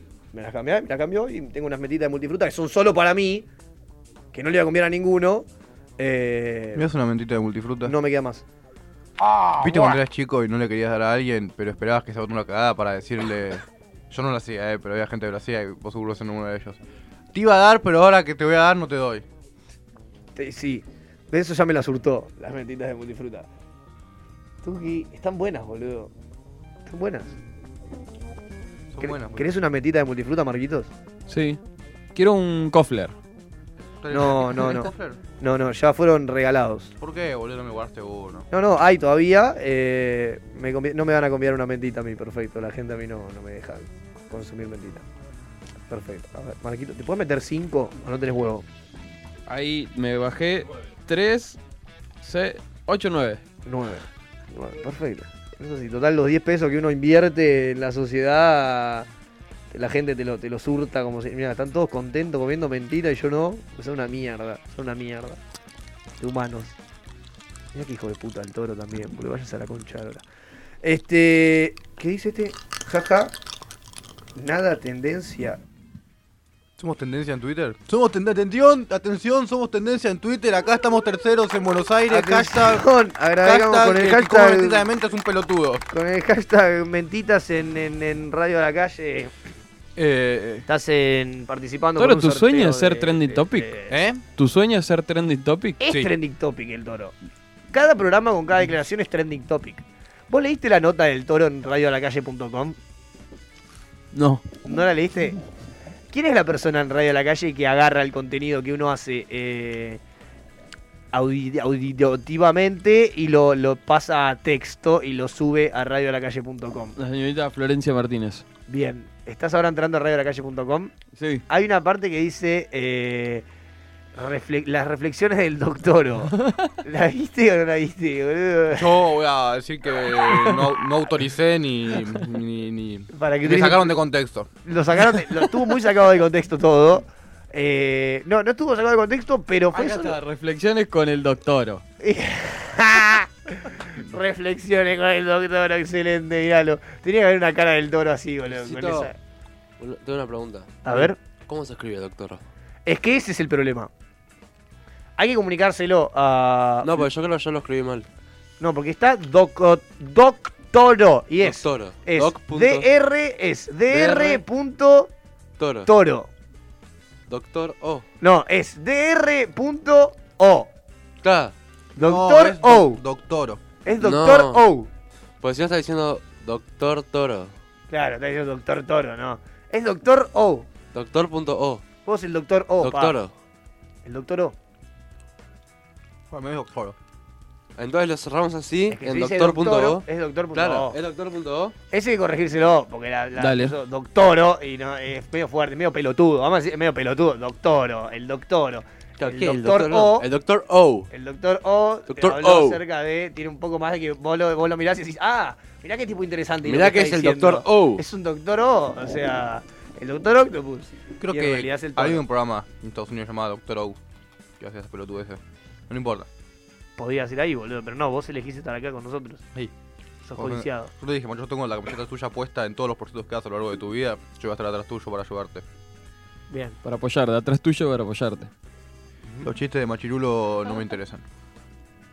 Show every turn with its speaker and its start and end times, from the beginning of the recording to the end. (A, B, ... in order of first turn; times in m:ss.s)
0:00.3-0:03.4 A
0:04.3-0:05.5 A
0:06.0-0:06.8 A
0:06.7-0:07.9 B
0:07.8-0:08.4 A
0:09.6-0:16.8 B
0:17.3-0:19.2 B
0:20.4-0:23.5 A
0:24.6-0:26.1 A
0:26.9-0:27.4 A
0:28.9-0:29.5 B
0:29.0-0:30.9 A
0:31.3-0:31.6 C
0:32.1-0:33.1 C
0:34.0-0:35.2 B
0:34.1-0:36.9 A
0:37.0-0:38.5 B
0:38.5-0:45.0 A
0:45.9-0:48.6 A
0:49.5-0:51.6 C
0:52.2-0:53.4 C
0:53.6-0:59.1 A
0:59.7-1:05.4 A
1:06.2-1:06.8 A
1:07.7-1:10.2 A
1:10.8-1:13.3 A
1:14.4-1:15.6 A
1:16.8-1:22.9 B
1:22.1-1:24.8 A
1:23.4-1:25.8 B
1:25.9-1:29.3 A
1:30.0-1:30.7 B
1:30.7-1:33.9 A
1:32.0-1:33.7 C
1:33.9-1:34.2 B
1:34.4-1:35.8 C
1:35.8-1:37.1 A
1:37.7-1:42.8 A
1:44.1-1:44.4 C
1:44.6-1:45.4 A
1:46.1-1:50.0 A
1:51.1-1:57.0 A
1:57.0-1:58.4 C
1:58.7-2:00.9 A
2:01.1-2:01.4 C
2:01.5-2:03.4 A
2:04.1-2:08.9 A
2:06.4-2:06.7 C
2:08.7-2:14.5 B
2:13.1-2:14.0 A
2:14.6-2:20.2 A
2:19.7-2:21.8 C
2:22.0-2:29.2 A
2:28.5-2:29.1 D
2:29.8-2:32.4 D
2:30.8-2:31.2 A
2:32.8-2:33.9 A
2:35.2-2:37.0 A
2:36.8-2:38.1 D
2:38.6-2:45.1 A
2:41.4-2:42.9 D
2:43.9-2:44.4 D
2:45.6-2:45.9 D
2:45.8-2:46.3 A
2:47.3-2:48.1 D
2:48.2-2:50.7 A
2:51.2-2:51.5 D
2:52.0-2:53.0 A
2:52.0-2:53.6 B
2:53.8-2:54.9 A
2:54.0-2:54.6 D
2:55.4-2:57.5 D
2:57.9-3:00.7 A
3:00.9-3:01.8 D
3:02.0-3:03.2 A
3:02.8-3:03.3 D
3:04.0-3:04.5 A
3:06.3-3:07.0 B
3:07.8-3:11.7 D
3:08.9-3:11.0 A
3:11.9-3:20.3 A
3:13.4-3:13.7 C
3:19.2-3:21.1 D
3:21.1-3:32.2 A
3:22.1-3:22.8 D
3:26.6-3:28.0 D
3:31.2-3:34.0 B
3:34.6-3:36.3 B
3:37.0-3:39.4 A
3:40.2-3:40.9 A
3:40.3-3:45.6 B
3:46.5-3:46.8 A
3:46.8-3:48.5 C
3:49.4-3:51.2 B